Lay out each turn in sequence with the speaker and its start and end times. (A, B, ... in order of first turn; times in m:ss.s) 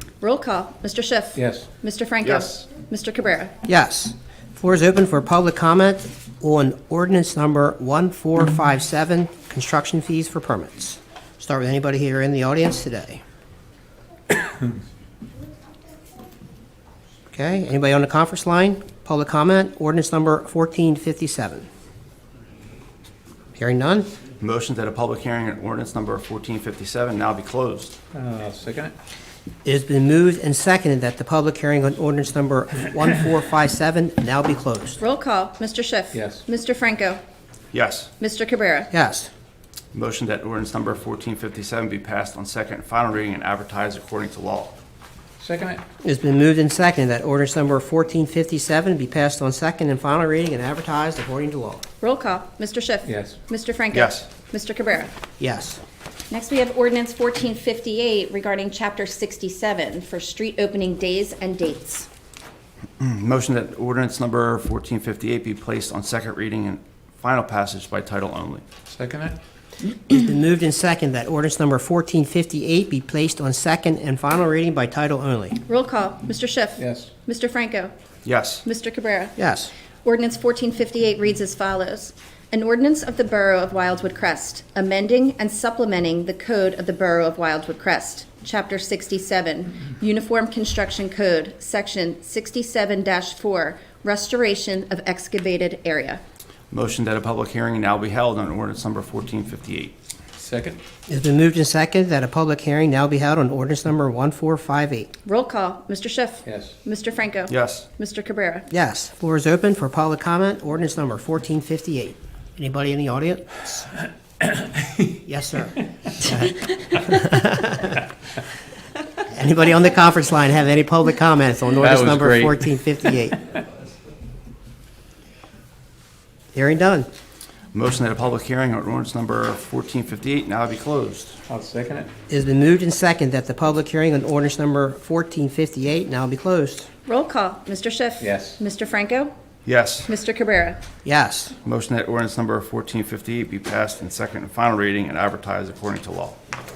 0:00.2-0:03.5 A
0:01.4-0:01.7 B
0:02.2-0:02.6 C
0:03.6-0:13.2 D
0:17.3-0:21.7 D
0:23.6-0:24.1 D
0:24.4-0:27.9 C
0:28.1-0:28.9 B
0:29.6-0:35.0 D
0:35.0-0:37.2 A
0:36.1-0:36.4 B
0:37.7-0:38.1 C
0:38.2-0:38.9 A
0:38.9-0:39.3 D
0:39.9-0:44.8 C
0:45.4-0:45.8 B
0:46.0-0:51.8 D
0:52.0-0:55.1 A
0:53.1-0:53.4 B
0:53.9-0:54.3 C
0:55.4-0:55.8 D
0:56.3-1:02.1 A
1:03.0-1:08.6 C
1:08.9-1:09.4 B
1:10.1-1:15.6 D
1:15.6-1:17.9 A
1:16.8-1:17.1 B
1:18.2-1:18.6 C
1:18.6-1:19.3 A
1:19.4-1:19.7 D
1:20.0-1:36.2 A
1:36.7-1:39.9 C
1:40.4-1:40.8 B
1:41.1-1:45.1 D
1:45.2-1:48.7 A
1:46.4-1:46.7 B
1:47.5-1:47.9 C
1:48.7-1:53.9 D
1:54.4-1:55.1 B
1:55.2-1:58.0 D
1:59.3-2:03.4 D
2:01.8-2:02.6 B
2:06.5-2:07.1 D
2:07.7-2:11.4 C
2:11.5-2:12.1 B
2:12.3-2:16.9 D
2:17.1-2:19.3 A
2:18.2-2:18.6 B
2:19.6-2:20.1 C
2:20.1-2:20.8 A
2:21.0-2:21.5 D
2:21.6-2:26.4 C